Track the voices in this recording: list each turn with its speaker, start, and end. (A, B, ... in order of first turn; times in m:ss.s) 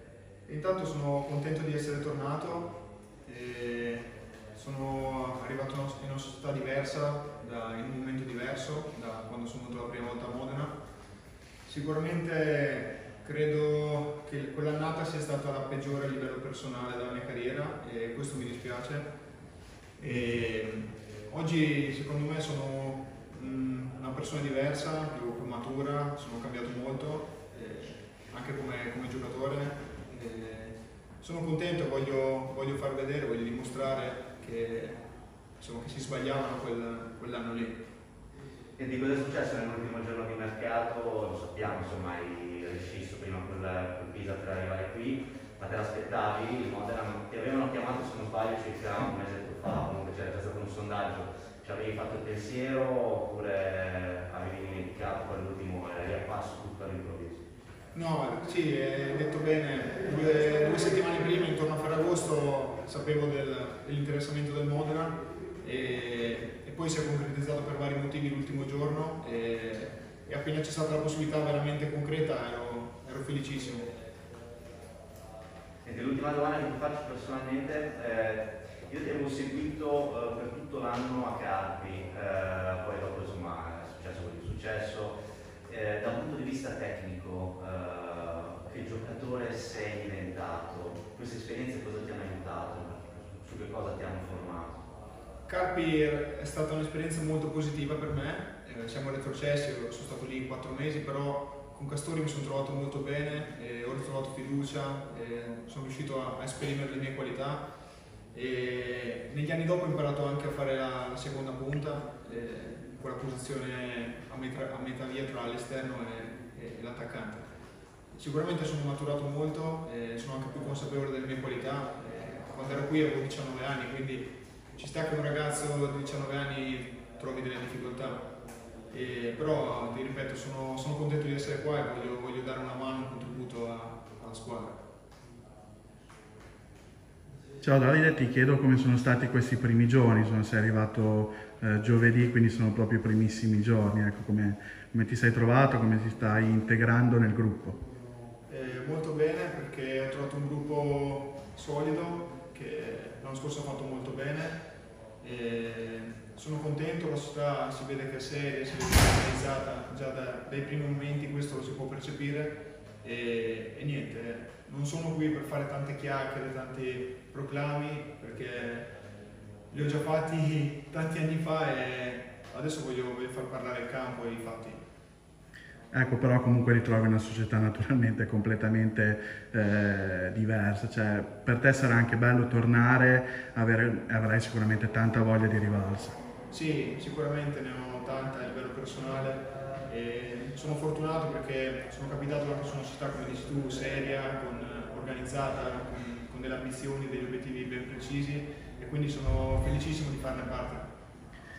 0:00.5-0:10.8 A
0:11.6-0:19.1 A
0:20.0-0:35.0 A
0:35.6-0:37.8 A
0:38.8-0:57.4 B
0:57.9-1:13.9 A
1:15.8-1:34.8 B
1:35.5-1:47.6 A
1:48.3-1:57.4 A
1:58.1-2:08.2 A
2:08.9-2:14.8 A
2:17.6-2:27.8 C
2:28.5-2:34.6 A
2:35.2-2:48.9 A
2:49.7-2:54.8 A
2:55.9-3:06.2 C
3:06.5-3:20.9 A